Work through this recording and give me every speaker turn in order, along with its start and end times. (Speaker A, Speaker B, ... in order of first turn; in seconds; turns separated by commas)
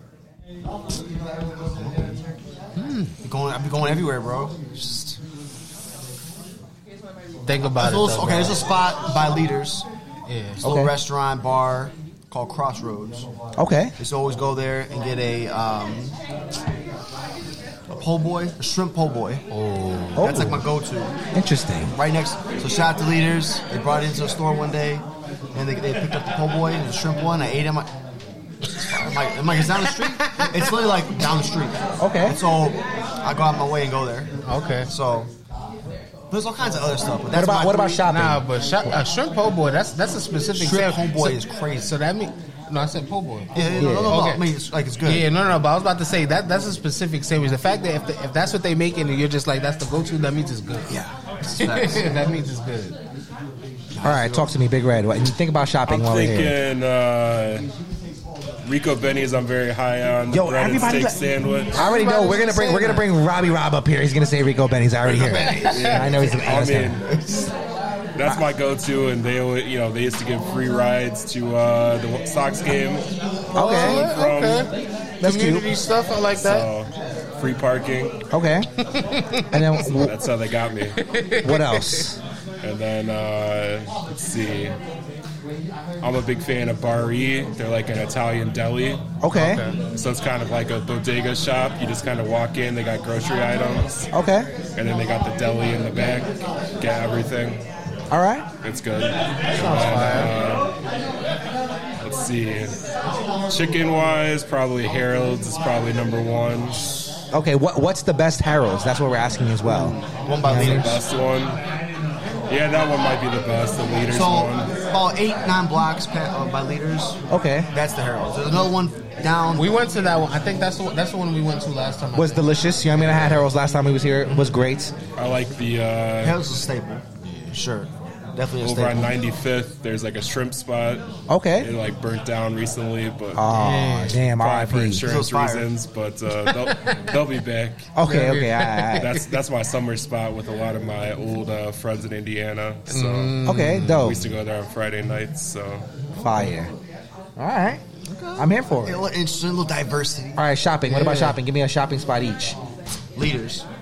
Speaker A: 1.8-2.1, Speaker B: 2.8-3.1, Speaker A: 3.2-5.2, Speaker B: 7.5-8.7, Speaker A: 7.8-9.9, Speaker B: 10.3-10.6, Speaker A: 10.6-13.3, Speaker C: 10.6-10.9, Speaker C: 13.6-13.9, Speaker A: 14.0-16.1, Speaker A: 17.9-19.4, Speaker B: 19.5-20.3, Speaker C: 20.2-20.6, Speaker A: 20.2-21.1, Speaker C: 21.3-21.9, Speaker A: 21.9-27.9, Speaker A: 28.8-34.3, Speaker B: 29.7-30.7, Speaker C: 32.0-32.4, Speaker B: 34.5-34.9, Speaker A: 34.9-35.3, Speaker A: 36.3-38.0, Speaker C: 37.3-38.5, Speaker B: 38.1-44.5, Speaker A: 40.6-41.9, Speaker A: 43.5-45.3, Speaker C: 43.8-44.2, Speaker B: 45.0-50.9, Speaker A: 51.5-52.1, Speaker B: 51.6-53.0, Speaker A: 53.9-54.5, Speaker C: 54.0-56.6, Speaker D: 55.9-57.7, Speaker D: 58.6-61.7, Speaker C: 60.3-67.0, Speaker B: 61.8-63.1, Speaker B: 65.1-66.3, Speaker D: 65.7-67.0, Speaker D: 68.2-73.0, Speaker C: 73.5-74.0, Speaker B: 73.5-74.7, Speaker D: 73.6-74.7, Speaker C: 75.2-75.7, Speaker B: 75.2-76.7, Speaker D: 76.4-78.2, Speaker C: 78.3-78.7, Speaker B: 79.0-79.6, Speaker C: 79.5-80.2, Speaker D: 79.9-81.0, Speaker B: 81.0-82.0, Speaker C: 81.4-82.2, Speaker D: 82.6-84.8, Speaker D: 86.0-89.0, Speaker C: 89.2-89.6, Speaker B: 89.3-89.8, Speaker D: 90.0-94.1, Speaker C: 94.1-94.5, Speaker D: 94.8-97.6, Speaker C: 98.1-98.5, Speaker D: 98.6-100.7, Speaker B: 99.5-100.3, Speaker D: 102.0-102.8, Speaker D: 103.5-106.8, Speaker C: 107.3-111.0, Speaker A: 110.2-111.0, Speaker D: 110.5-111.6, Speaker D: 112.5-114.7, Speaker A: 114.1-117.2, Speaker C: 117.3-117.7, Speaker A: 117.7-119.8, Speaker B: 119.5-123.5, Speaker C: 122.2-124.9, Speaker D: 125.2-126.4, Speaker A: 126.2-129.2, Speaker D: 128.6-131.1, Speaker C: 131.3-131.7, Speaker D: 131.6-133.5, Speaker C: 133.3-135.1, Speaker B: 133.5-134.2, Speaker D: 134.3-137.9, Speaker A: 135.0-135.7, Speaker B: 136.6-137.0, Speaker C: 137.9-139.1, Speaker B: 138.0-139.2, Speaker D: 139.0-143.4, Speaker B: 142.9-144.2, Speaker C: 143.4-144.2, Speaker D: 143.9-145.8, Speaker C: 146.2-146.7, Speaker C: 147.4-147.8, Speaker A: 148.1-150.4, Speaker C: 148.4-149.0, Speaker C: 150.4-152.6, Speaker B: 150.9-151.4, Speaker A: 153.2-153.7